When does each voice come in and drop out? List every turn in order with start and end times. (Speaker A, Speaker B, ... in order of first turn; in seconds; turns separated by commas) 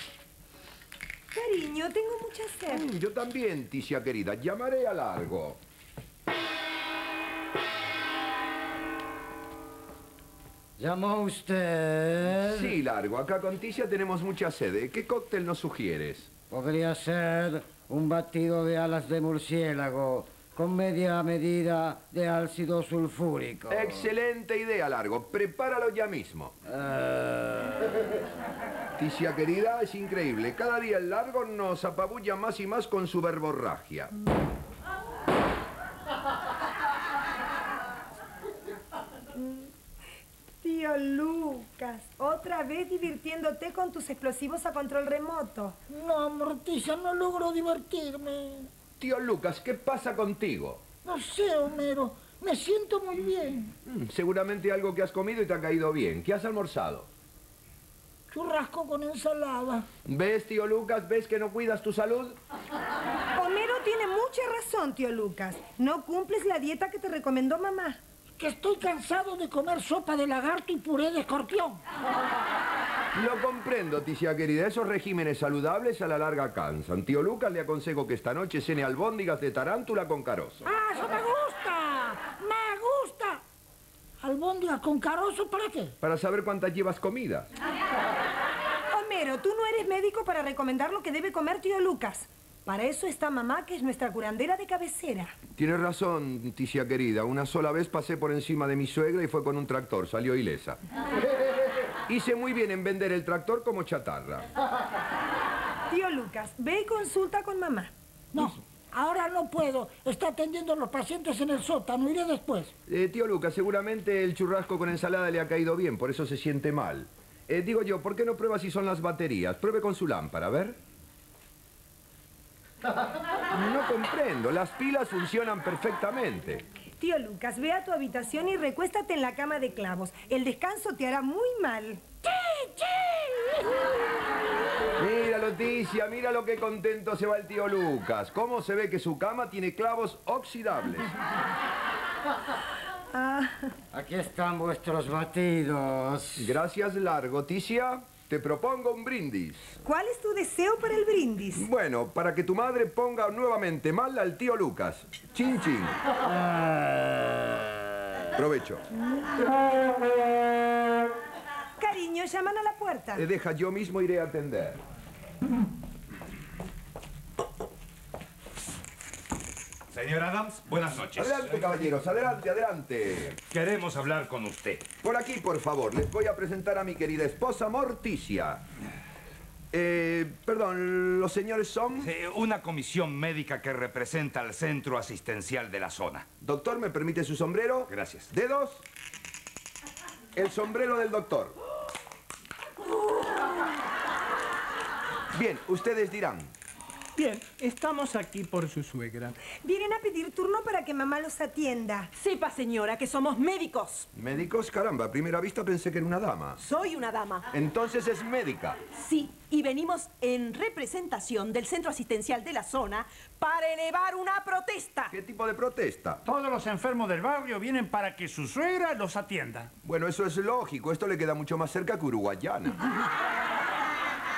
Speaker A: 1.3-2.9, Speaker B: 2.7-5.6, Speaker C: 10.8-12.2, Speaker B: 12.5-16.3, Speaker C: 16.5-23.8, Speaker B: 23.7-26.5, Speaker C: 26.9-27.1, Speaker B: 29.0-34.1, Speaker A: 39.3-39.7, Speaker A: 40.6-45.8, Speaker D: 45.9-48.7, Speaker B: 49.0-50.8, Speaker D: 51.0-53.7, Speaker B: 53.8-57.1, Speaker D: 58.3-59.9, Speaker B: 60.0-62.4, Speaker A: 63.4-68.0, Speaker D: 68.4-71.8, Speaker B: 73.1-80.7, Speaker D: 80.6-83.4, Speaker D: 84.2-85.9, Speaker B: 86.0-87.5, Speaker A: 88.9-95.3, Speaker B: 95.6-100.8, Speaker B: 102.1-104.5, Speaker A: 105.9-107.9, Speaker D: 108.3-112.7, Speaker B: 112.9-120.8, Speaker B: 123.5-126.6, Speaker A: 127.0-132.2, Speaker D: 132.2-133.0, Speaker B: 135.0-141.1, Speaker A: 143.1-143.7, Speaker C: 143.9-146.3, Speaker B: 146.4-149.7, Speaker A: 149.8-151.6, Speaker B: 151.6-156.0, Speaker B: 158.3-158.8, Speaker A: 161.8-163.2, Speaker B: 163.2-164.8, Speaker E: 169.9-171.5, Speaker B: 171.2-173.4, Speaker E: 173.5-174.8, Speaker B: 175.0-178.6, Speaker B: 179.7-182.1, Speaker E: 182.0-186.2, Speaker B: 186.4-188.8, Speaker E: 187.9-188.3, Speaker B: 190.3-191.5, Speaker B: 195.3-196.5, Speaker F: 197.1-199.3, Speaker A: 199.6-202.1, Speaker G: 202.1-204.1, Speaker B: 204.1-206.6, Speaker G: 206.6-207.5, Speaker B: 207.5-208.8, Speaker G: 208.9-215.1, Speaker B: 215.1-216.2, Speaker H: 216.2-219.7, Speaker B: 219.8-222.8